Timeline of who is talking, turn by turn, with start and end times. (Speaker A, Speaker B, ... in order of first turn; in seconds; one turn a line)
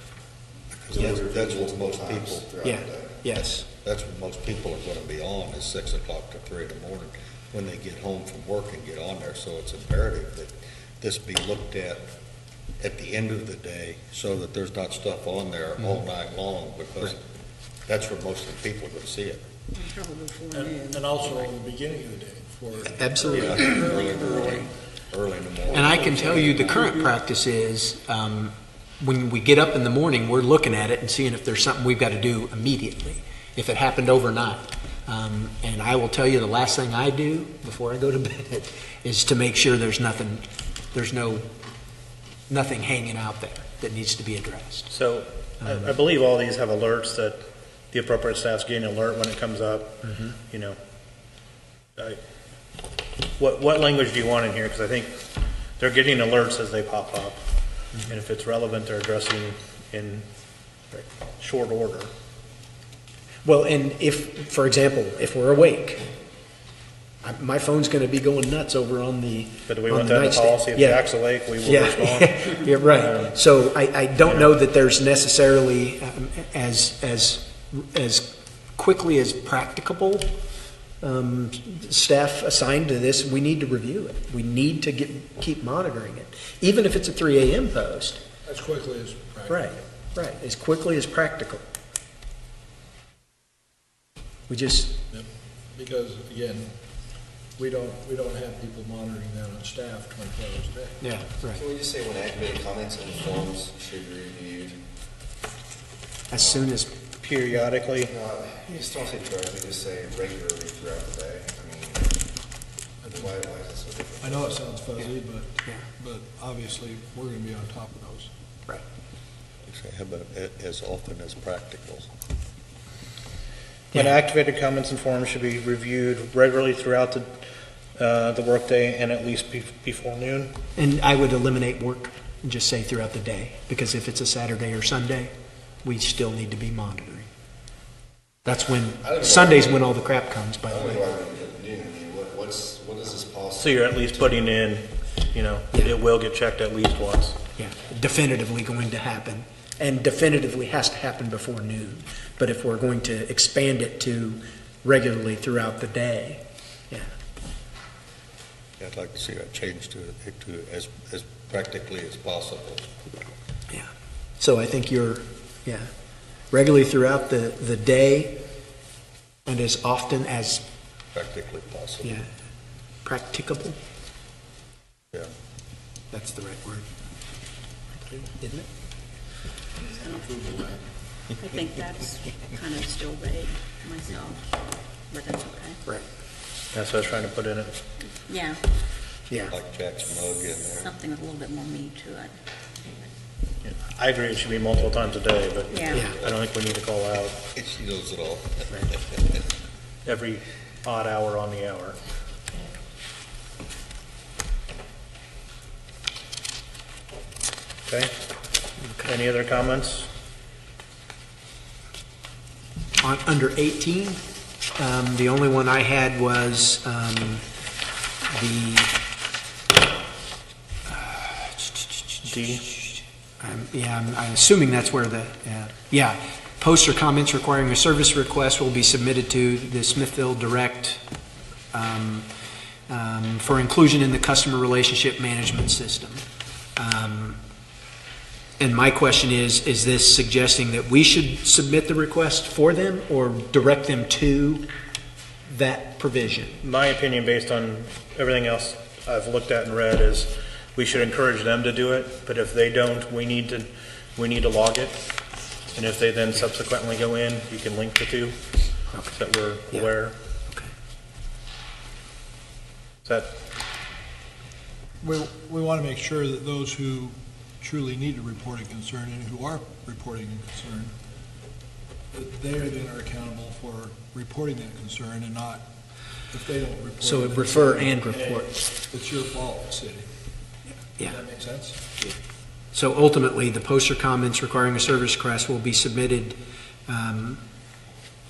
Speaker A: 0.7-2.5
Speaker B: 0.9-3.2
Speaker C: 2.6-3.6
Speaker A: 3.4-12.1
Speaker A: 12.8-17.2
Speaker A: 17.9-19.4
Speaker D: 19.7-21.5
Speaker E: 20.5-23.1
Speaker C: 22.9-23.8
Speaker A: 23.1-27.0
Speaker D: 23.3-24.7
Speaker C: 25.7-41.5
Speaker C: 42.5-44.9
Speaker F: 44.9-50.8
Speaker F: 53.4-55.2
Speaker F: 55.8-57.4
Speaker F: 58.0-60.2
Speaker F: 61.0-62.1
Speaker C: 63.5-66.0
Speaker C: 67.2-71.1
Speaker F: 69.7-73.4
Speaker C: 71.6-80.3
Speaker F: 74.2-74.5
Speaker C: 81.0-88.2
Speaker E: 88.5-89.8
Speaker C: 89.5-91.6
Speaker C: 94.5-95.0
Speaker E: 95.1-96.7
Speaker E: 97.6-101.0
Speaker C: 101.0-101.6
Speaker B: 101.5-104.8
Speaker C: 106.3-106.9
Speaker B: 106.4-106.6
Speaker F: 107.2-108.1
Speaker B: 108.0-112.2
Speaker E: 113.0-113.3
Speaker B: 113.1-114.6
Speaker E: 114.2-118.3
Speaker A: 119.7-122.1
Speaker F: 123.9-127.5
Speaker F: 128.0-130.5
Speaker C: 130.8-135.3
Speaker C: 135.8-137.3
Speaker C: 138.4-141.0
Speaker B: 139.0-139.9
Speaker B: 140.7-143.9
Speaker F: 143.6-147.4
Speaker C: 147.6-157.1
Speaker A: 158.8-162.9
Speaker C: 163.7-165.9
Speaker C: 166.5-168.4
Speaker C: 169.4-170.6
Speaker A: 171.1-172.2
Speaker C: 173.0-173.8
Speaker C: 176.1-176.8
Speaker C: 178.0-178.7
Speaker D: 179.8-180.5
Speaker E: 180.2-180.8
Speaker D: 181.3-184.6
Speaker D: 185.1-185.8
Speaker F: 186.7-187.8
Speaker D: 188.1-188.6
Speaker A: 189.5-190.9
Speaker D: 190.6-193.1
Speaker F: 193.6-197.4
Speaker D: 195.7-196.1
Speaker A: 197.5-199.4
Speaker F: 200.1-202.0
Speaker F: 207.9-208.1
Speaker C: 208.8-209.1
Speaker F: 209.0-210.1
Speaker C: 213.0-214.2
Speaker C: 214.8-217.4
Speaker C: 218.2-218.9
Speaker C: 220.9-221.7
Speaker F: 222.2-222.6
Speaker C: 223.4-231.0
Speaker C: 231.7-232.3
Speaker C: 232.9-236.2
Speaker C: 236.8-237.4
Speaker C: 238.6-244.6
Speaker C: 245.5-246.6
Speaker F: 246.6-255.1
Speaker F: 255.7-258.4
Speaker F: 259.1-260.1
Speaker F: 263.1-263.4
Speaker E: 265.0-270.9
Speaker E: 272.1-275.7
Speaker E: 276.3-280.1
Speaker C: 277.0-278.6
Speaker E: 281.0-281.8
Speaker C: 282.7-287.4